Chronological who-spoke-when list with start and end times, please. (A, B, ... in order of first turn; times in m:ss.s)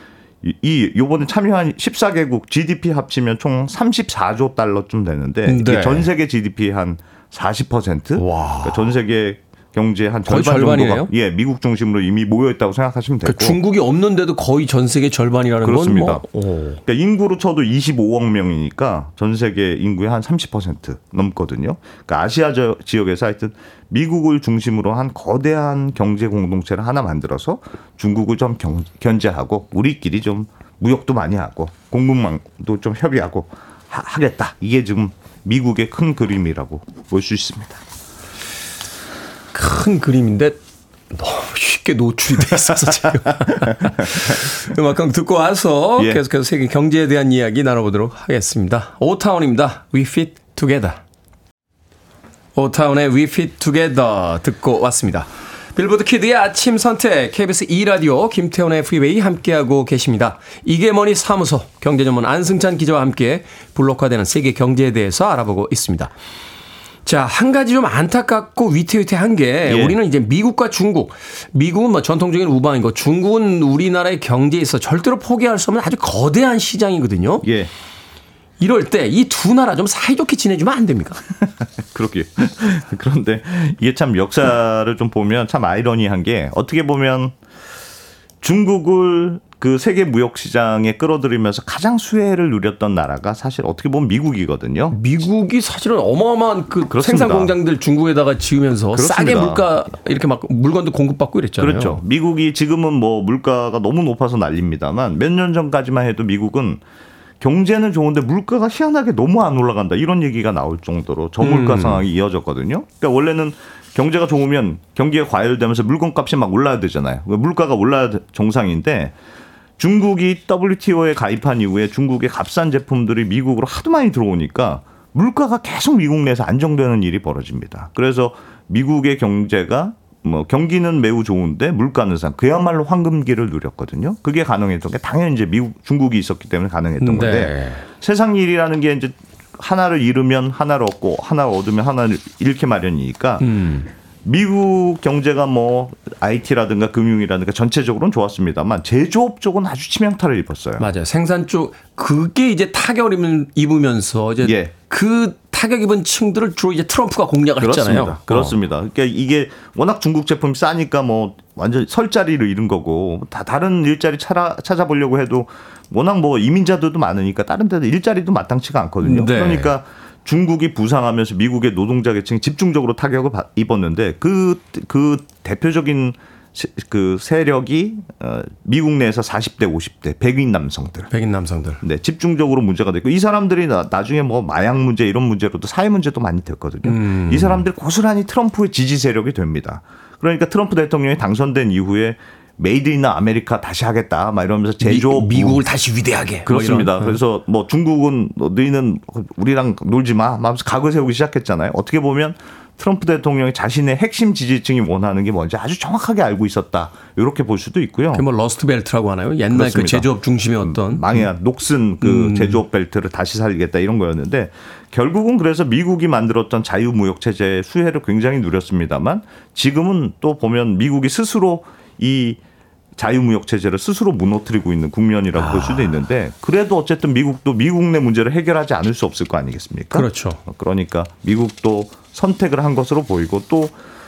0:00.4-0:13.6 A
0:05.5-0:06.1 B
0:08.2-0:09.0 B
0:10.3-0:11.1 B
0:13.2-0:16.8 B
0:15.6-0:16.3 A
0:16.9-0:37.8 A
0:39.5-0:40.6 B
0:41.1-0:51.0 B
0:42.6-0:44.5 A
0:52.6-1:06.1 B
1:07.1-1:17.4 B
1:09.6-1:10.0 A
1:17.4-1:17.7 A
1:18.6-1:21.2 B
1:21.9-1:27.4 A
1:28.4-1:35.0 A
1:34.9-1:42.0 B
1:36.9-1:37.6 A
1:38.9-1:39.7 A
1:41.6-1:46.8 A
1:47.4-1:59.1 A
1:51.4-1:52.1 B
1:59.8-2:23.5 A
2:17.0-2:17.8 B
2:23.4-2:23.9 B
2:24.2-2:30.9 A
2:30.8-2:38.6 B
2:34.4-2:34.7 A
2:37.6-3:01.1 A
2:49.0-2:49.8 B
3:01.1-3:01.8 B
3:01.8-3:15.6 A
3:06.8-3:07.6 B
3:14.8-3:17.2 B
3:16.4-3:28.2 A
3:28.1-3:31.2 B
3:29.5-3:30.1 A
3:30.6-3:42.4 A
3:32.0-3:32.6 B
3:43.0-3:53.8 A
3:45.4-3:45.9 B
3:49.9-3:50.4 B